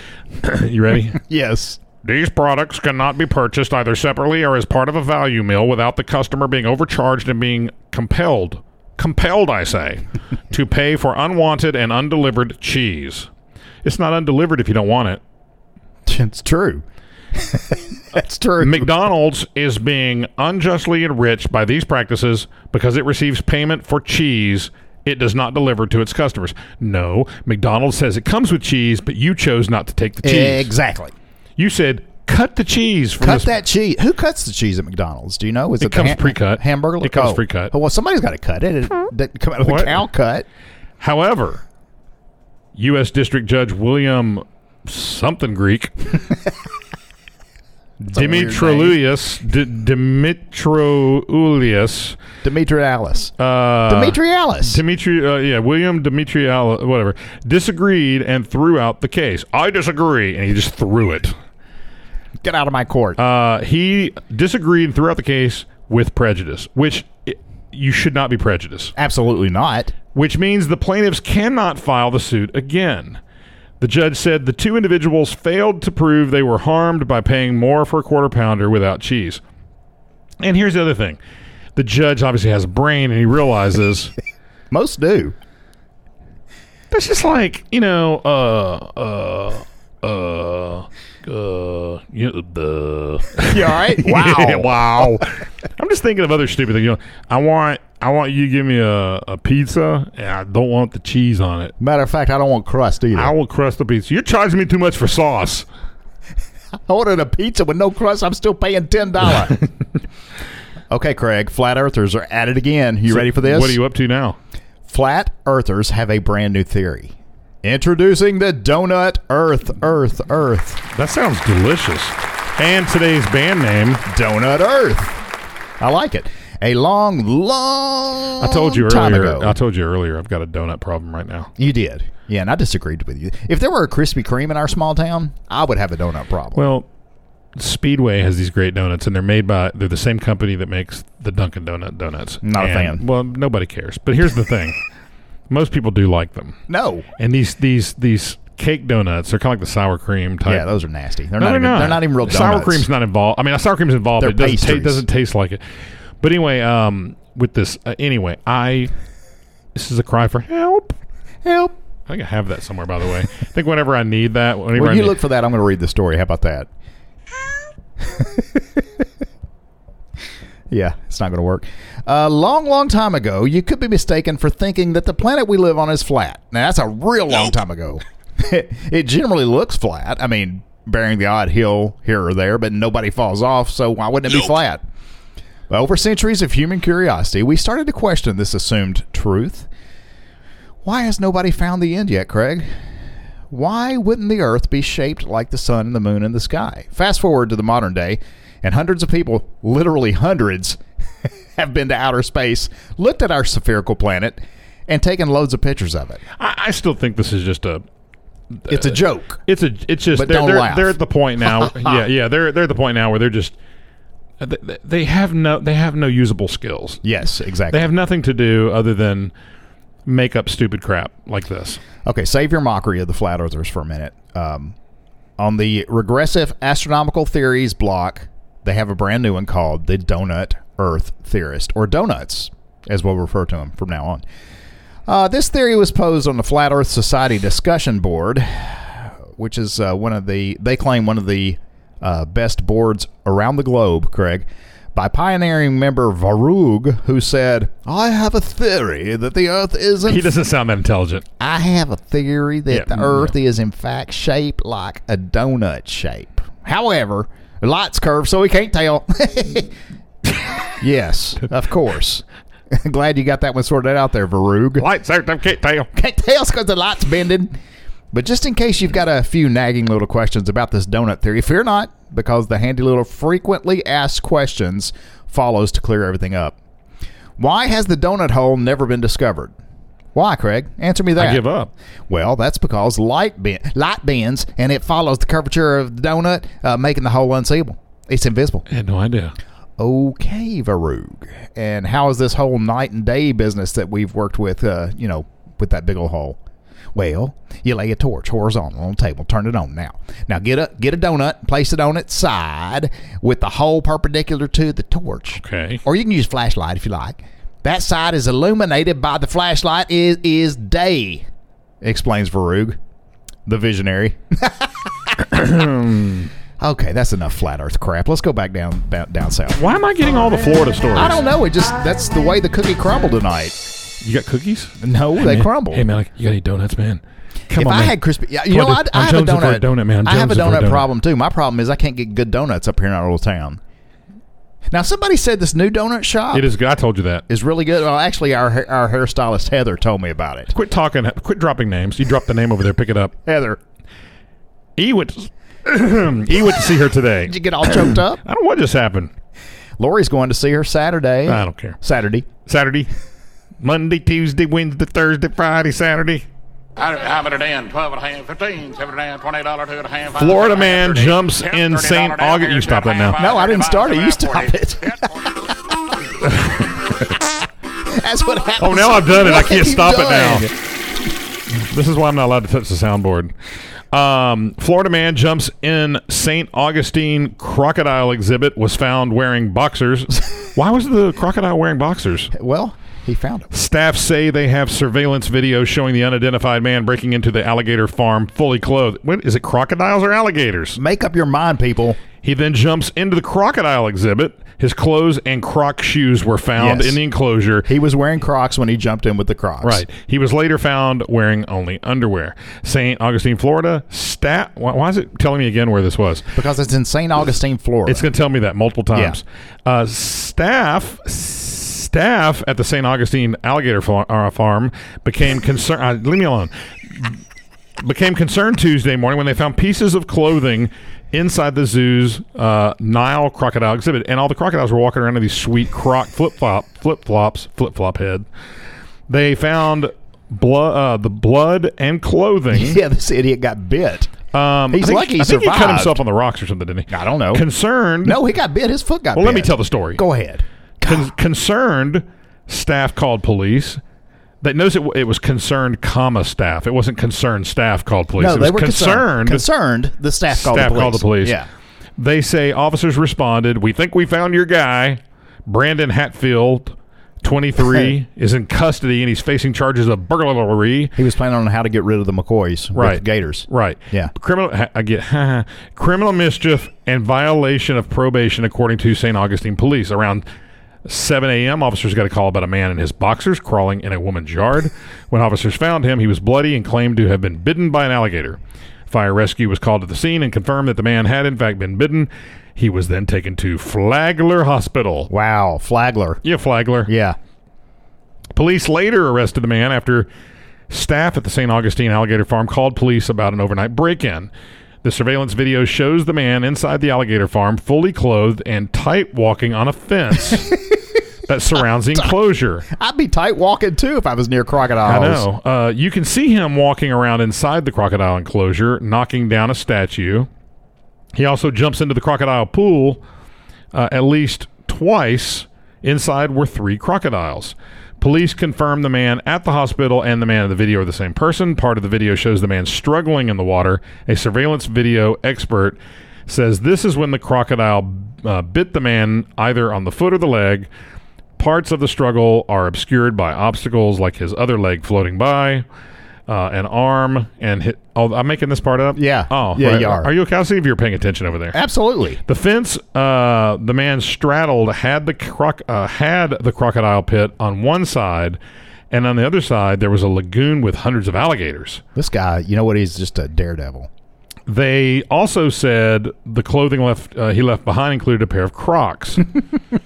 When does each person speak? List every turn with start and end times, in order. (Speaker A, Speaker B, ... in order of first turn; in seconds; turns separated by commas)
Speaker A: 0.4-1.2, Speaker B: 1.2-1.8, Speaker A: 2.0-13.3, Speaker A: 13.8-15.2, Speaker B: 16.1-18.9, Speaker A: 18.6-30.7, Speaker B: 30.2-31.1, Speaker A: 31.6-33.5, Speaker B: 33.2-40.5, Speaker A: 35.8-37.7, Speaker A: 39.6-40.0, Speaker A: 41.0-41.6, Speaker A: 42.8-46.1, Speaker B: 48.0-49.0, Speaker A: 48.1-52.2, Speaker B: 52.4-53.3, Speaker A: 53.4-61.4, Speaker B: 53.9-54.8, Speaker B: 62.4-63.2, Speaker A: 63.2-68.9, Speaker B: 69.0-69.9, Speaker A: 70.1-73.2, Speaker A: 73.8-79.4, Speaker A: 80.4-81.2, Speaker A: 81.8-84.1, Speaker B: 84.7-85.3, Speaker A: 86.9-101.7, Speaker B: 93.4-95.1, Speaker B: 101.8-103.3, Speaker A: 103.1-105.7, Speaker B: 106.9-109.6, Speaker B: 110.9-113.8, Speaker A: 113.1-114.4, Speaker B: 114.9-120.8, Speaker A: 120.9-124.0, Speaker B: 124.1-125.2, Speaker B: 125.8-129.6, Speaker A: 128.4-131.5, Speaker B: 131.6-136.6, Speaker A: 136.6-136.9, Speaker A: 137.6-144.8, Speaker B: 142.4-143.0, Speaker A: 145.5-146.6, Speaker B: 146.7-147.1, Speaker A: 147.2-150.7, Speaker B: 150.5-152.9, Speaker A: 151.4-155.6, Speaker B: 154.2-155.0, Speaker A: 156.2-158.9, Speaker A: 159.8-161.0, Speaker B: 161.4-161.8, Speaker A: 162.1-165.2, Speaker B: 164.8-166.7, Speaker B: 168.0-169.0, Speaker B: 170.7-184.8, Speaker B: 185.7-189.7, Speaker B: 190.8-192.7, Speaker B: 193.5-206.2, Speaker A: 206.4-207.8, Speaker A: 208.6-213.6, Speaker B: 208.7-209.4, Speaker B: 210.1-211.9, Speaker A: 214.4-217.0, Speaker B: 217.0-217.9, Speaker A: 217.7-219.3, Speaker A: 220.1-221.8, Speaker B: 222.1-224.8, Speaker B: 225.4-234.2, Speaker B: 235.1-250.3, Speaker A: 250.1-251.2, Speaker B: 251.4-259.7, Speaker A: 252.7-253.3, Speaker B: 260.8-264.9, Speaker A: 264.8-265.9, Speaker B: 265.9-267.6, Speaker B: 268.1-276.6, Speaker B: 277.4-279.6, Speaker B: 280.1-281.4, Speaker A: 281.2-281.7, Speaker B: 282.1-288.7, Speaker A: 288.7-289.3, Speaker B: 289.8-296.4, Speaker B: 296.9-311.3, Speaker A: 305.4-305.8, Speaker B: 311.8-312.8, Speaker B: 313.5-314.9, Speaker A: 315.2-316.3, Speaker B: 316.6-319.6, Speaker A: 319.6-321.2, Speaker B: 320.9-323.6, Speaker A: 324.0-328.0, Speaker B: 324.8-325.9, Speaker B: 327.5-333.6, Speaker A: 328.5-330.9, Speaker B: 334.7-336.5, Speaker A: 336.3-337.2, Speaker B: 337.3-340.5, Speaker A: 340.5-343.1, Speaker B: 343.2-343.6, Speaker A: 344.8-349.1, Speaker B: 347.3-348.2, Speaker B: 349.8-352.3, Speaker A: 351.3-351.8, Speaker A: 352.5-352.9, Speaker A: 353.6-356.2, Speaker C: 356.8-365.1, Speaker A: 360.2-363.2, Speaker B: 363.2-365.3, Speaker A: 366.2-366.7, Speaker B: 367.9-370.5, Speaker A: 368.6-370.5, Speaker A: 371.6-373.3, Speaker A: 373.9-382.3, Speaker B: 382.3-383.5, Speaker A: 383.5-390.8, Speaker B: 390.8-392.0, Speaker A: 392.2-397.7, Speaker B: 396.6-397.0, Speaker B: 397.7-399.8, Speaker A: 399.6-406.4, Speaker B: 406.4-408.1, Speaker A: 407.9-417.2, Speaker B: 408.9-409.2, Speaker A: 417.8-428.2, Speaker A: 429.1-432.8, Speaker B: 432.5-434.1, Speaker A: 434.3-438.2, Speaker B: 434.7-436.0, Speaker B: 436.9-437.4, Speaker B: 438.0-441.1, Speaker A: 439.1-440.0, Speaker A: 440.8-443.8, Speaker A: 444.4-449.4, Speaker B: 448.2-451.5, Speaker A: 450.3-451.4, Speaker A: 452.0-460.9, Speaker B: 461.0-464.1, Speaker A: 462.8-470.2, Speaker A: 470.9-485.1, Speaker B: 485.1-486.2, Speaker A: 486.2-486.9, Speaker B: 486.9-487.2, Speaker A: 488.4-490.1, Speaker A: 490.7-494.3, Speaker A: 494.8-500.6, Speaker B: 500.5-500.8, Speaker A: 501.3-502.7, Speaker B: 502.7-505.3, Speaker A: 504.9-510.3, Speaker A: 511.1-513.0, Speaker A: 513.7-530.7, Speaker A: 531.4-535.6, Speaker A: 536.3-541.6, Speaker B: 539.0-540.1, Speaker B: 541.5-542.2, Speaker A: 542.2-548.4, Speaker A: 548.9-551.8, Speaker B: 552.0-553.9, Speaker A: 554.5-559.3